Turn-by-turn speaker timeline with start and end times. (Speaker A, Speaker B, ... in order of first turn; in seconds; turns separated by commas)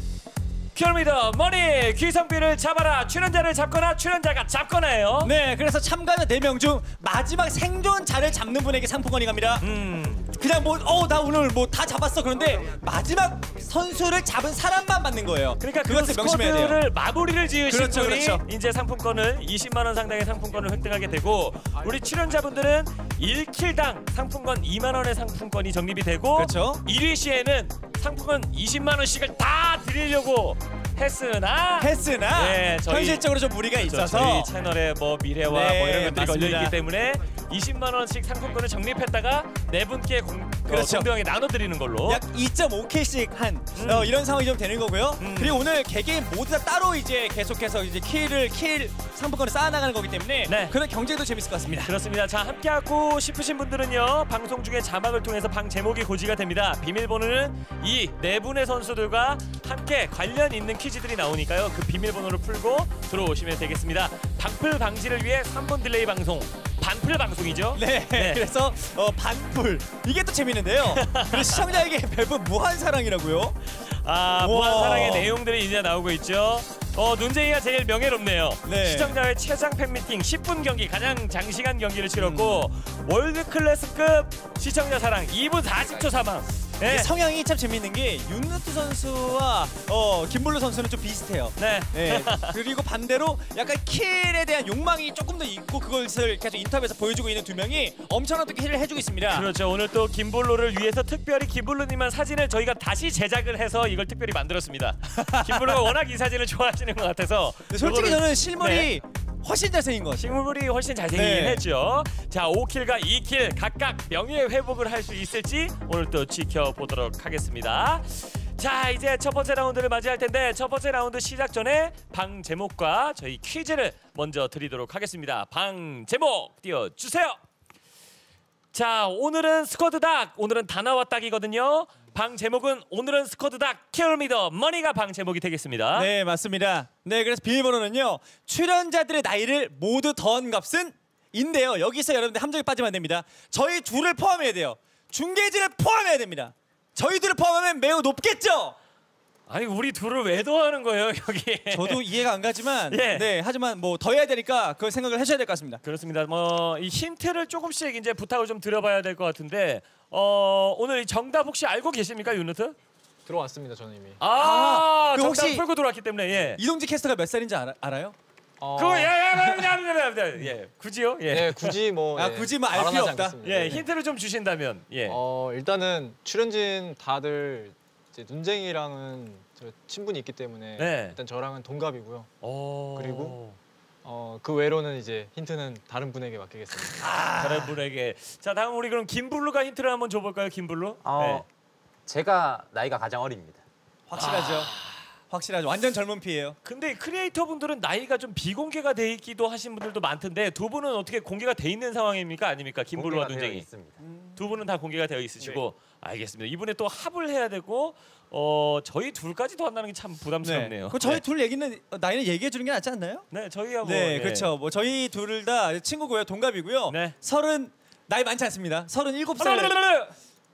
Speaker A: 0.8-5.3, Speaker B: 5.2-9.8, Speaker A: 9.6-10.3, Speaker B: 10.3-16.8, Speaker A: 15.6-42.2, Speaker B: 17.7-18.4, Speaker B: 26.4-26.8, Speaker B: 31.8-34.5, Speaker B: 35.5-36.8, Speaker B: 40.7-41.1, Speaker B: 42.1-51.9, Speaker A: 43.8-44.1, Speaker A: 45.2-45.6, Speaker A: 50.5-50.8, Speaker A: 51.9-68.4, Speaker B: 67.8-73.6, Speaker A: 71.0-71.6, Speaker A: 73.8-87.1, Speaker B: 74.4-75.3, Speaker B: 78.7-79.2, Speaker B: 82.2-82.7, Speaker B: 86.8-99.5, Speaker A: 91.6-92.6, Speaker A: 99.3-108.9, Speaker B: 105.2-105.9, Speaker B: 107.7-110.4, Speaker A: 110.2-127.4, Speaker B: 111.1-111.7, Speaker A: 128.7-136.1, Speaker B: 135.9-148.8, Speaker A: 149.5-152.2, Speaker B: 151.7-155.8, Speaker A: 152.9-153.3, Speaker A: 155.8-162.8, Speaker C: 163.3-164.2, Speaker A: 164.2-166.6, Speaker B: 164.3-165.6, Speaker B: 166.6-168.2, Speaker C: 168.6-169.2, Speaker A: 168.8-171.8, Speaker C: 171.3-173.8, Speaker B: 172.2-173.8, Speaker A: 173.4-175.2, Speaker C: 175.1-182.3, Speaker A: 180.8-181.2, Speaker A: 182.4-183.6, Speaker C: 182.9-183.4, Speaker C: 184.0-187.0, Speaker B: 187.0-187.8, Speaker A: 187.3-191.4, Speaker D: 191.0-191.5, Speaker D: 192.1-193.6, Speaker B: 194.1-194.8, Speaker A: 194.2-195.0, Speaker B: 195.3-196.6, Speaker A: 196.7-203.7, Speaker D: 202.9-204.0, Speaker B: 204.0-204.4, Speaker A: 204.4-211.2, Speaker B: 210.4-213.3, Speaker A: 213.3-214.5, Speaker B: 213.8-219.8, Speaker A: 216.9-217.2, Speaker A: 219.4-220.1